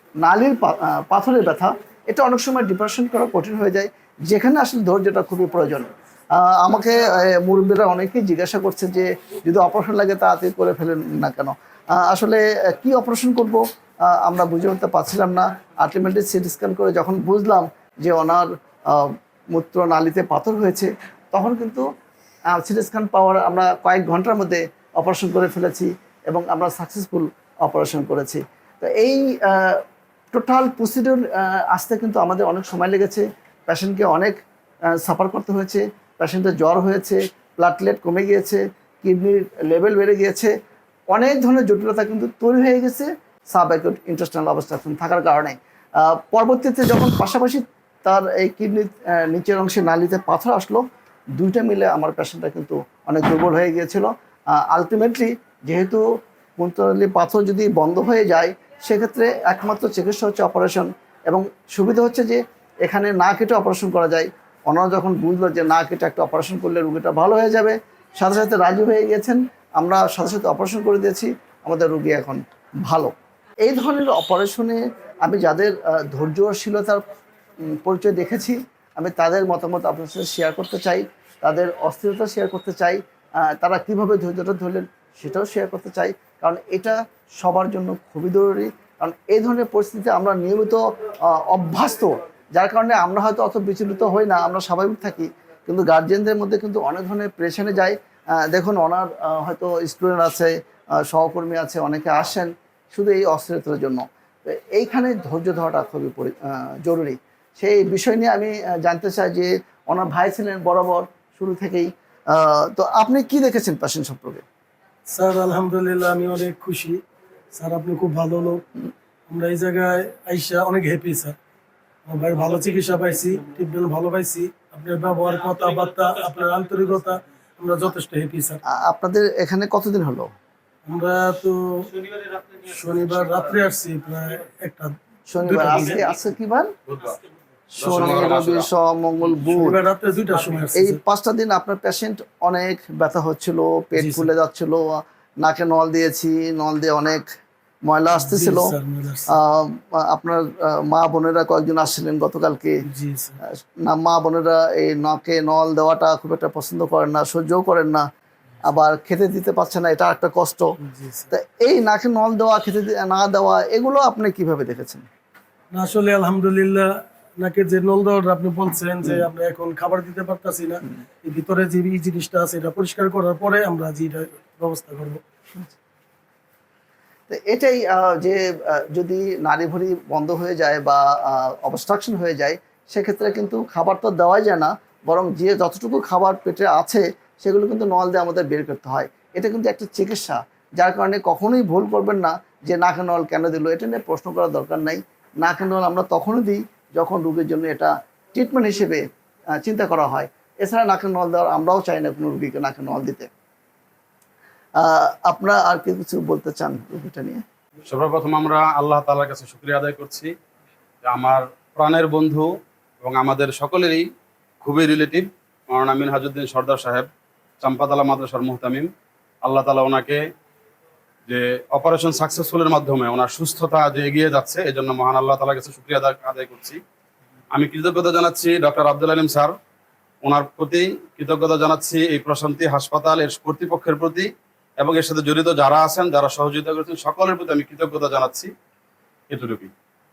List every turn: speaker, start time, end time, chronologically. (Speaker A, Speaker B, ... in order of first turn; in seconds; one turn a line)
Speaker A: 0.2-21.9
Speaker A: 22.5-34.4
Speaker A: 34.9-40.5
Speaker A: 41.1-50.8
Speaker A: 51.4-56.0
Speaker A: 56.6-73.1
Speaker A: 73.6-77.0
Speaker A: 77.7-114.4
Speaker B: 115.1-117.0
Speaker B: 117.5-118.6
Speaker B: 119.3-121.3
Speaker B: 122.0-128.6
Speaker A: 128.7-130.3
Speaker B: 130.8-134.9
Speaker A: 135.3-136.7
Speaker B: 135.4-136.0
Speaker C: 136.9-137.2
Speaker A: 137.7-139.8
Speaker C: 137.8-138.7
Speaker B: 139.4-141.0
Speaker A: 140.8-147.2
Speaker B: 143.9-144.3
Speaker A: 147.8-148.7
Speaker B: 148.2-149.3
Speaker A: 149.3-152.8
Speaker B: 152.8-153.4
Speaker A: 153.5-158.0
Speaker A: 158.7-160.7
Speaker B: 160.8-161.3
Speaker A: 161.3-165.1
Speaker B: 165.7-175.2
Speaker A: 177.3-199.0
Speaker A: 199.6-203.3
Speaker A: 204.8-207.4
Speaker C: 207.9-210.3
Speaker C: 211.0-212.5
Speaker C: 213.0-214.1
Speaker C: 214.6-217.1
Speaker C: 217.6-218.9
Speaker C: 219.4-220.2
Speaker C: 221.3-226.8
Speaker C: 227.5-229.5
Speaker C: 230.2-238.5
Speaker C: 239.3-239.7